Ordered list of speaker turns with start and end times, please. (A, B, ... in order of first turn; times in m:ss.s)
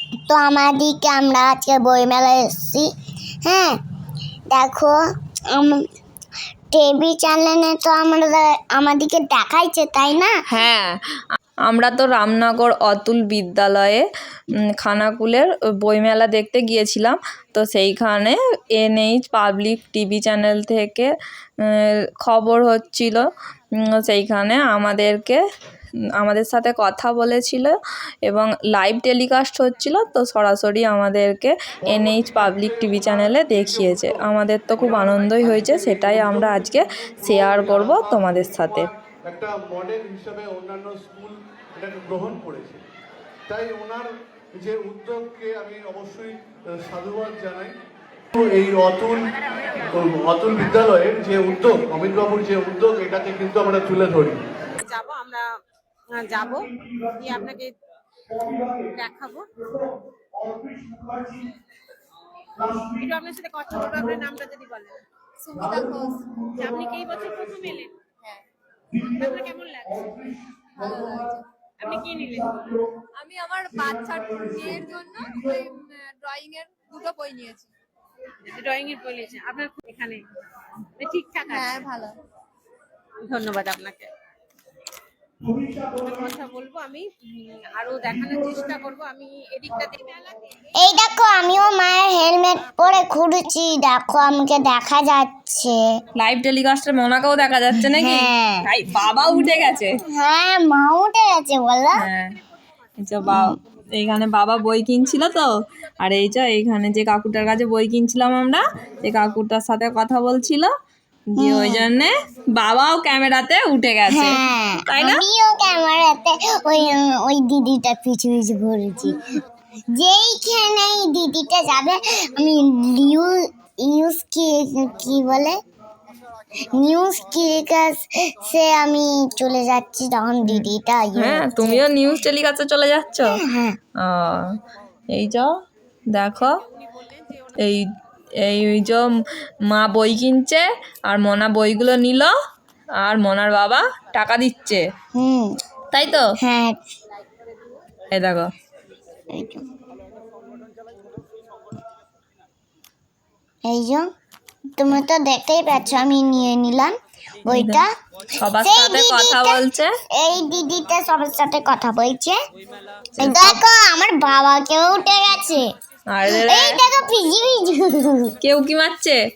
0:00.3-0:02.9 A
0:03.5-0:03.8 A
0:04.5-0:05.0 A
0:05.5-0:05.8 A
0:06.7-0:10.3 A
0:10.5-0:10.9 B
0:11.7-0:14.0 B
0:14.8-0:21.1 B
0:21.6-0:25.4 B
0:26.2-0:27.7 B
0:28.3-0:38.9 B
0:31.9-0:34.2 C
0:34.8-0:42.8 C
0:43.5-0:47.8 C
0:48.3-0:49.3 C
0:49.9-0:54.4 C
0:54.8-0:55.5 D
0:56.1-0:57.7 D
0:58.6-0:59.5 D
1:02.7-1:05.0 D
1:05.4-1:06.5 E
1:06.5-1:08.0 D
1:09.0-1:10.3 D
1:10.8-1:11.4 E
1:11.8-1:12.7 D
1:13.2-1:17.7 E
1:18.4-1:20.2 D
1:21.0-1:21.8 D
1:21.5-1:22.1 E
1:23.2-1:24.1 D
1:25.7-1:30.5 D
1:30.8-1:35.8 A
1:36.2-1:40.0 B
1:37.9-1:38.7 A
1:40.1-1:42.0 A
1:42.0-1:42.4 B
1:43.0-1:50.7 B
1:43.3-1:43.6 A
1:51.4-1:51.9 A
1:51.4-1:54.4 B
1:54.1-1:59.2 A
1:54.9-1:55.2 B
2:00.0-2:05.6 A
2:06.8-2:11.9 A
2:10.5-2:13.3 B
2:13.4-2:13.8 A
2:14.0-2:14.6 B
2:15.1-2:15.5 B
2:16.1-2:16.6 B
2:16.9-2:17.6 D
2:17.6-2:17.9 B
2:18.4-2:19.0 B
2:19.7-2:22.3 B
2:23.0-2:24.8 B
2:25.2-2:25.5 A
2:25.9-2:26.3 B
2:26.4-2:26.8 A
2:28.1-2:28.5 B
2:29.3-2:29.6 A
2:33.7-2:34.1 A
2:34.8-2:36.9 A
2:37.5-2:37.9 A
2:37.5-2:37.8 B
2:38.4-2:39.9 B
2:38.6-2:42.4 A
2:43.2-2:43.6 B
2:43.2-2:45.6 A
2:46.1-2:46.8 B
2:46.4-2:48.3 A
2:48.4-2:49.2 B